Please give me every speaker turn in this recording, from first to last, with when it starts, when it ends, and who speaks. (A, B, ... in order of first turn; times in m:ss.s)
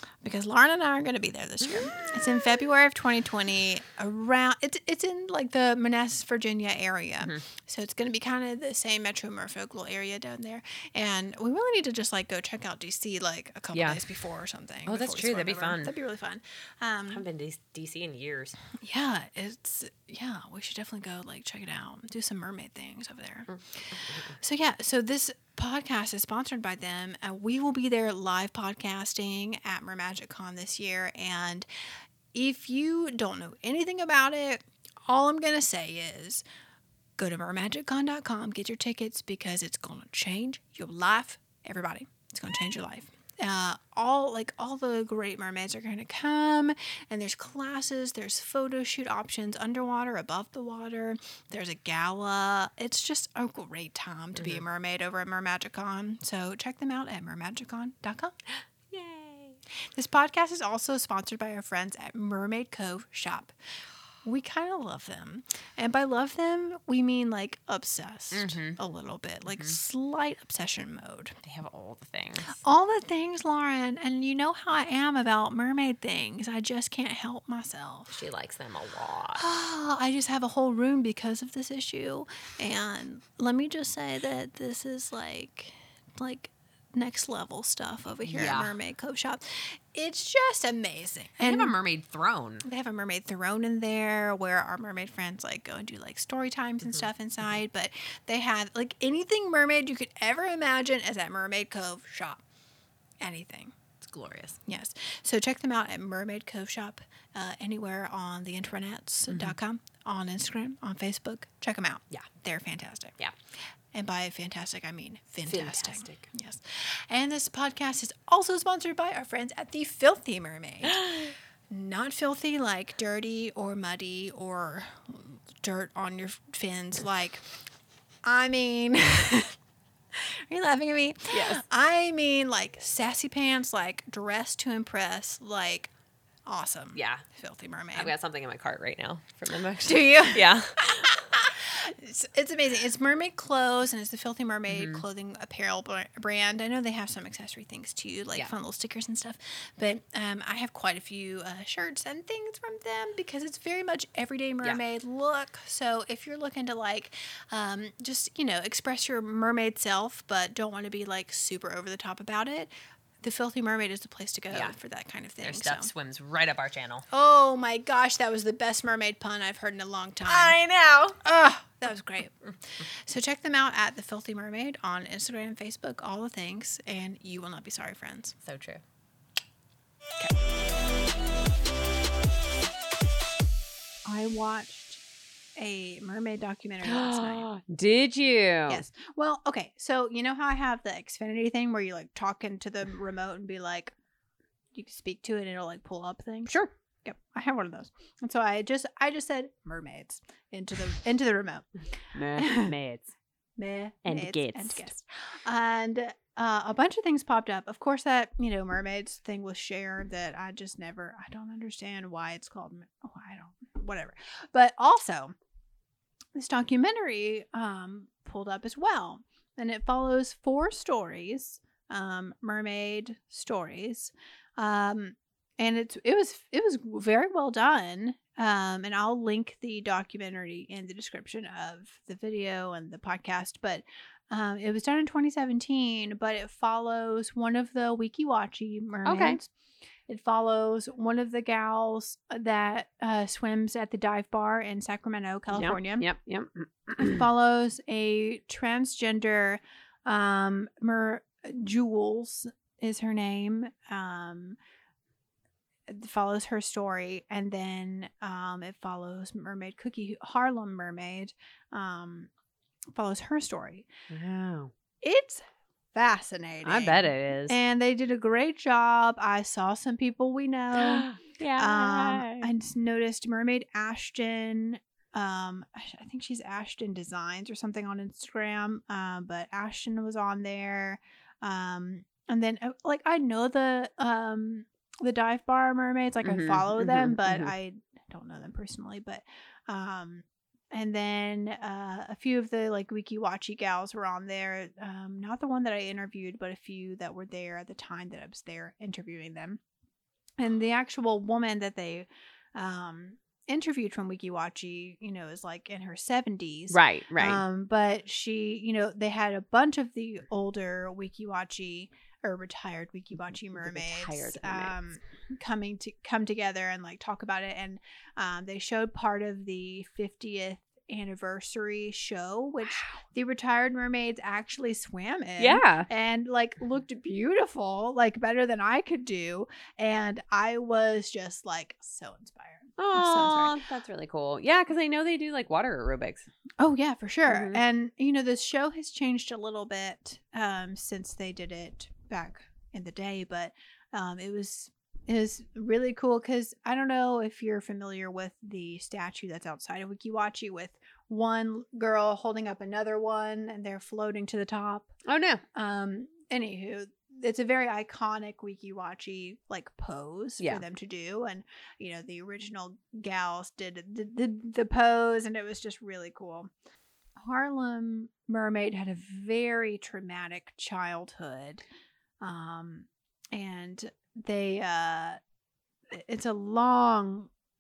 0:00.2-0:17.3 A
0:01.6-0:02.0 B
0:13.7-0:14.0 B
0:14.9-0:15.9 B
0:17.1-0:18.6 B
0:18.8-0:31.7 A
0:23.9-0:24.4 B
0:32.3-0:36.4 A
0:37.2-0:58.3 A
0:54.4-0:54.6 B
0:58.9-0:59.6 B
1:00.0-1:03.5 A
1:04.2-1:11.4 A
1:08.3-1:08.8 B
1:09.5-1:09.8 B
1:11.4-1:12.6 B
1:12.5-1:18.2 A
1:18.1-1:19.4 B
1:19.4-1:31.8 A
1:28.2-1:28.8 B
1:31.4-1:32.6 B
1:32.6-1:42.4 A
1:36.8-1:37.5 B
1:43.2-1:43.8 A
1:44.0-1:44.6 B
1:44.6-1:53.2 A
1:49.3-1:49.6 B
1:53.9-2:07.4 A
1:55.4-1:56.3 B
2:00.8-2:01.3 B
2:08.2-2:09.6 A
2:10.1-2:15.9 A
2:11.3-2:11.6 B
2:16.5-2:18.1 A
2:17.0-2:17.2 B
2:17.9-2:21.2 B
2:19.8-2:42.7 A
2:24.7-2:25.0 B
2:43.2-2:45.9 A
2:45.4-2:47.1 B
2:47.1-2:50.6 A
2:50.2-2:51.2 B
2:51.2-2:58.4 A
2:58.4-2:58.8 B
3:04.1-3:05.0 A
3:05.6-3:07.5 A
3:06.8-3:08.8 B
3:08.7-3:13.9 A
3:14.7-3:22.7 A
3:22.1-3:23.1 B
3:23.6-3:35.4 A
3:24.0-3:24.9 B
3:36.4-3:59.5 A
3:59.0-3:59.4 B
4:00.1-4:06.0 A
4:05.5-4:07.3 B
4:07.0-4:14.6 A
4:15.9-4:22.3 A
4:22.9-4:23.9 A
4:24.1-4:24.7 B
4:25.0-4:59.6 A
4:26.6-4:27.6 B
4:30.7-4:32.5 B
4:46.2-4:47.5 B
5:00.4-5:33.6 A
5:06.7-5:07.4 B
5:13.6-5:14.8 B
5:22.6-5:23.0 B
5:25.4-5:25.9 B
5:32.8-5:36.3 B
5:36.6-5:54.9 A
5:37.3-5:37.6 B
5:55.0-5:55.4 B
5:55.5-6:06.5 A
6:07.2-6:11.6 A
6:12.2-6:15.2 A
6:15.9-6:17.3 A